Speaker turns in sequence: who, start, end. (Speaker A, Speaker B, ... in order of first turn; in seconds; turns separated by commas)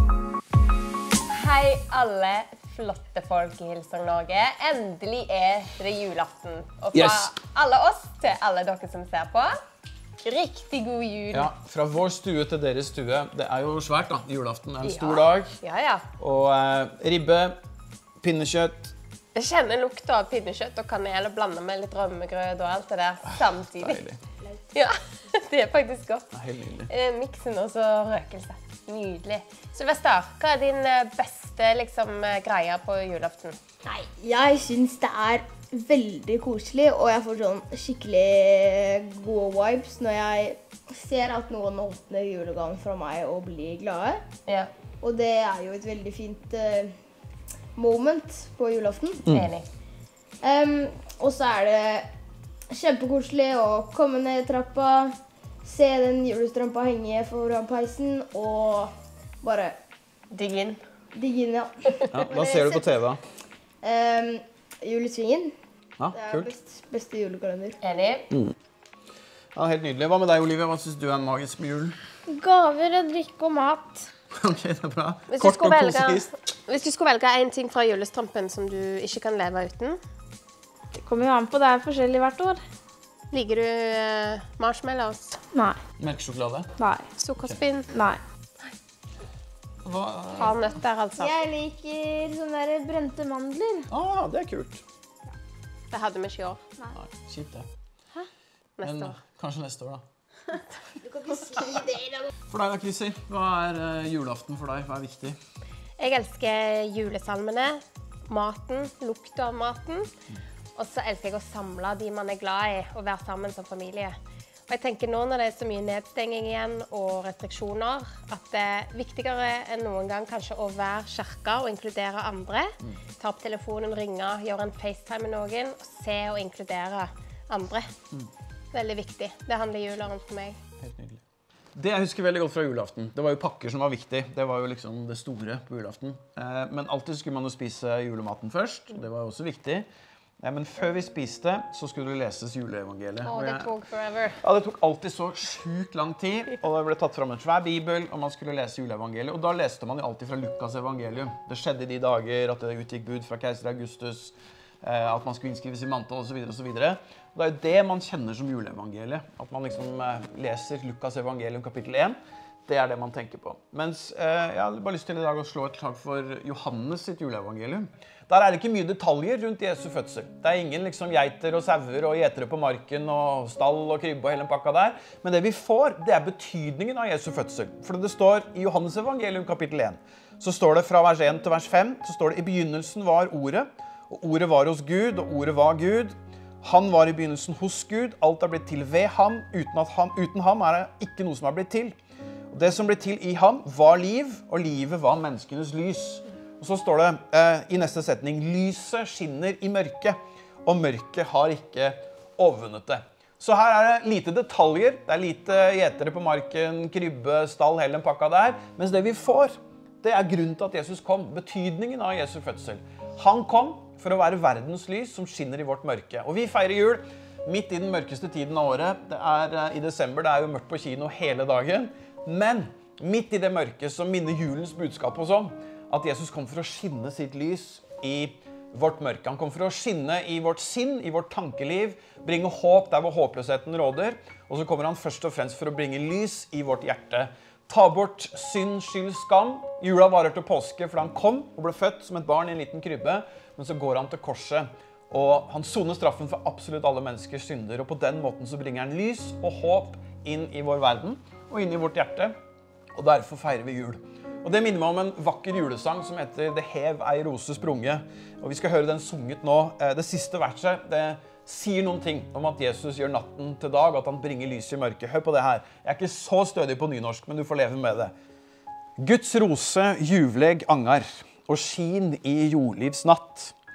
Speaker A: 1.3-9.6, Speaker B: 6.9-7.3, Speaker A: 10.2-11.5, Speaker B: 11.3-15.5, Speaker A: 14.8-16.1, Speaker B: 16.2-17.6, Speaker B: 18.2-18.9, Speaker A: 19.3-24.0, Speaker B: 23.7-24.2, Speaker A: 24.7-26.3, Speaker B: 26.3-26.9, Speaker A: 26.9-33.6, Speaker C: 33.9-44.2, Speaker A: 44.5-44.7, Speaker C: 45.0-46.9, Speaker C: 47.8-49.3, Speaker B: 49.2-49.5, Speaker A: 49.2-49.7, Speaker C: 50.4-52.1, Speaker C: 52.7-59.8, Speaker A: 60.3-60.8, Speaker C: 61.1-63.0, Speaker B: 62.1-63.2, Speaker C: 63.8-65.5, Speaker B: 66.0-66.5, Speaker C: 66.1-67.8, Speaker A: 67.8-68.3, Speaker B: 69.5-72.0, Speaker D: 72.3-74.0, Speaker B: 74.3-76.3, Speaker A: 75.3-80.0, Speaker D: 80.9-82.6, Speaker A: 83.3-85.4, Speaker B: 86.0-86.7, Speaker D: 86.8-87.1, Speaker A: 87.2-88.0, Speaker D: 87.9-88.2, Speaker B: 89.8-90.6, Speaker A: 90.3-91.3, Speaker C: 91.2-93.7, Speaker D: 93.5-93.8, Speaker B: 93.9-94.8, Speaker A: 95.9-96.6, Speaker B: 96.9-97.7, Speaker A: 98.8-99.2, Speaker B: 98.8-100.0, Speaker C: 101.0-102.2, Speaker B: 102.5-105.4, Speaker A: 106.0-110.1, Speaker A: 110.8-114.2, Speaker A: 114.7-127.9, Speaker A: 128.7-130.6, Speaker B: 130.8-131.2, Speaker B: 131.7-139.8, Speaker B: 140.4-143.7, Speaker A: 143.2-144.4, Speaker B: 144.4-162.2, Speaker B: 162.7-191.9, Speaker B: 192.5-252.3, Speaker B: 252.9-268.1, Speaker B: 269.0-273.5